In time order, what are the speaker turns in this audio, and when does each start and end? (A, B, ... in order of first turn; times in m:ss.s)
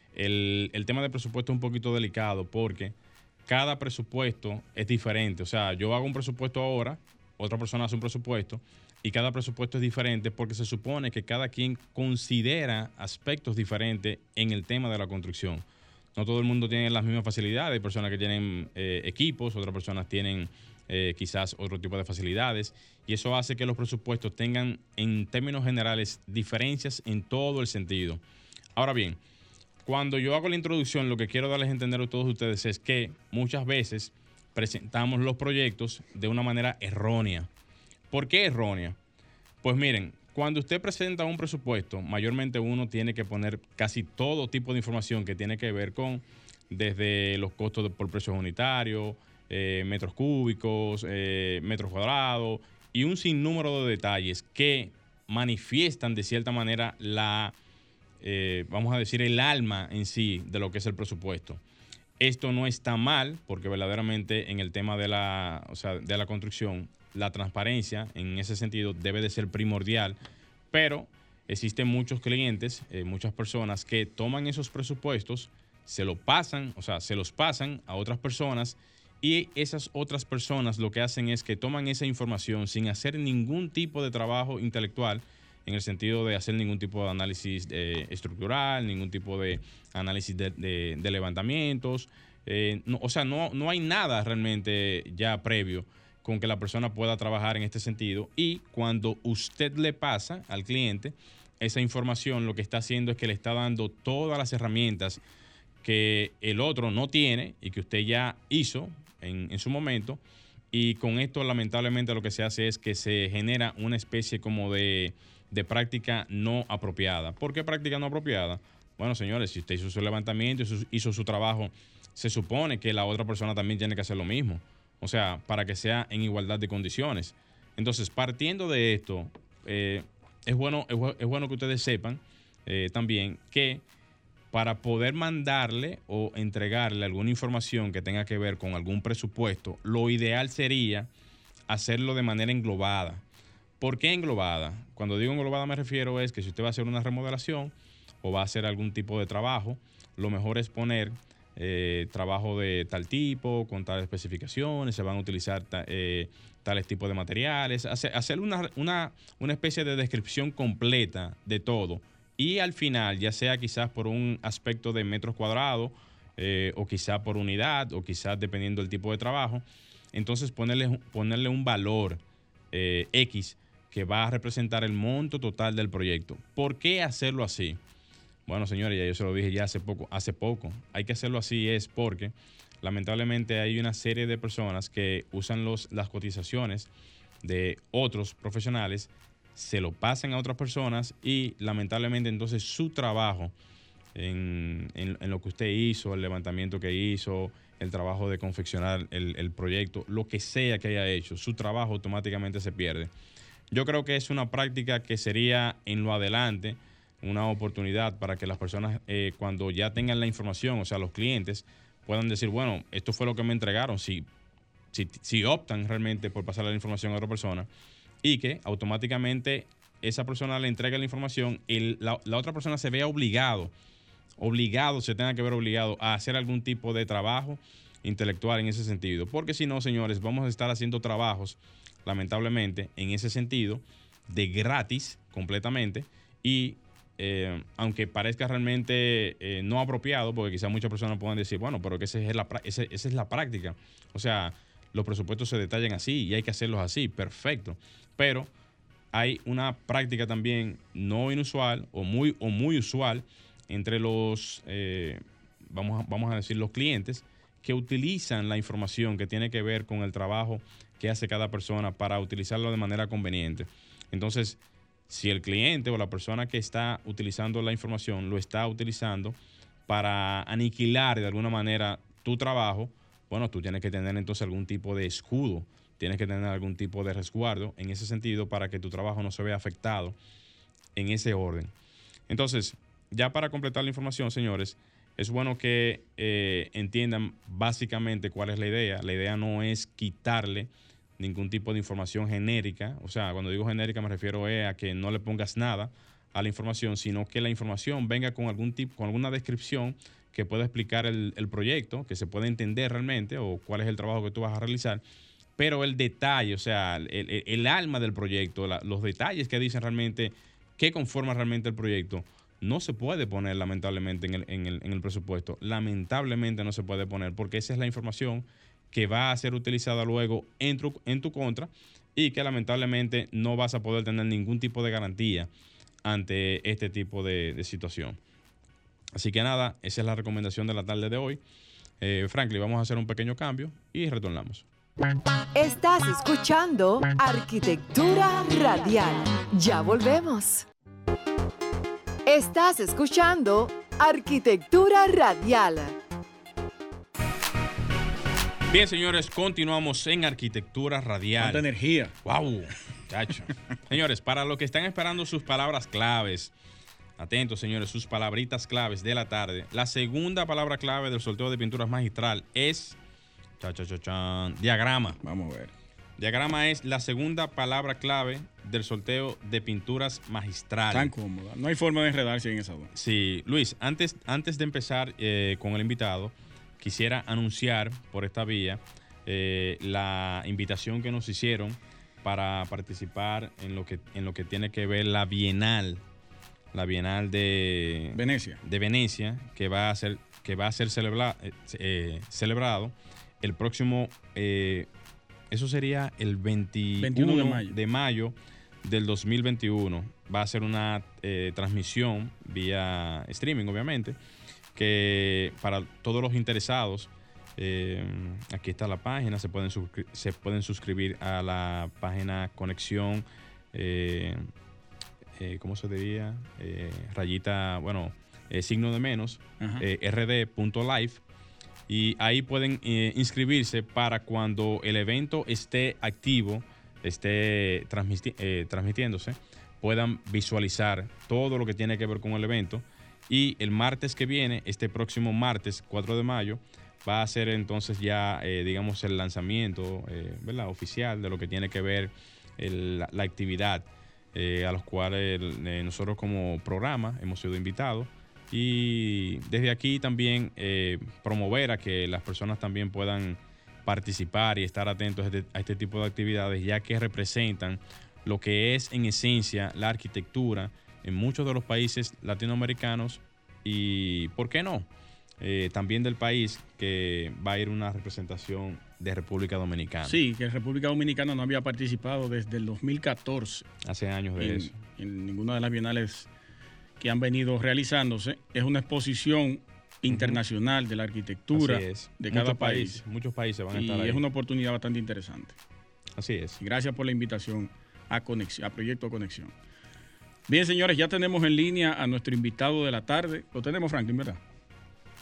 0:00.1-0:03.0 A
0:03.5-0:28.2 A
0:28.8-0:29.2 A
0:29.8-0:37.5 A
0:38.1-0:39.0 A
0:39.6-0:57.6 A
0:58.2-1:01.6 A
1:02.2-1:10.2 A
1:10.7-1:45.2 A
1:45.8-1:50.2 A
1:50.7-2:13.8 A
2:14.5-2:21.1 A
2:21.7-2:23.2 A
2:23.8-2:57.8 A
2:58.5-3:06.9 A
3:07.4-3:13.5 A
3:14.2-3:23.1 A
3:23.7-3:34.3 A
3:34.9-3:37.7 A
3:38.2-3:43.7 A
3:44.4-4:08.5 A
4:09.1-4:40.2 A
4:41.0-4:41.7 A
4:42.3-5:05.0 A
5:05.6-5:25.5 A
5:26.1-5:28.2 A
5:29.1-5:31.4 A
5:32.0-5:34.7 A
5:35.6-5:40.7 B
5:42.3-5:46.0 B
5:48.7-5:51.6 A
5:51.4-5:52.2 C
5:52.2-5:56.5 A
5:57.2-6:03.0 A
6:03.6-6:05.2 A
6:05.2-6:05.7 C
6:06.2-6:11.1 A
6:10.9-6:12.9 C
6:12.9-6:26.0 A
6:26.7-6:34.9 A
6:28.1-6:28.6 C
6:35.5-6:44.2 A
6:37.0-6:37.8 C
6:44.8-6:54.4 A
6:55.4-7:01.2 A
6:59.6-6:59.8 C
7:01.9-7:44.9 A
7:45.4-7:50.2 A
7:50.0-7:53.7 C
7:53.8-7:54.8 A
7:54.4-7:56.3 C
7:57.0-8:03.0 C
8:00.1-8:00.4 A
8:01.5-8:04.2 A
8:03.7-8:05.6 C
8:06.2-8:06.6 A
8:06.6-8:09.6 C
8:10.5-8:14.4 C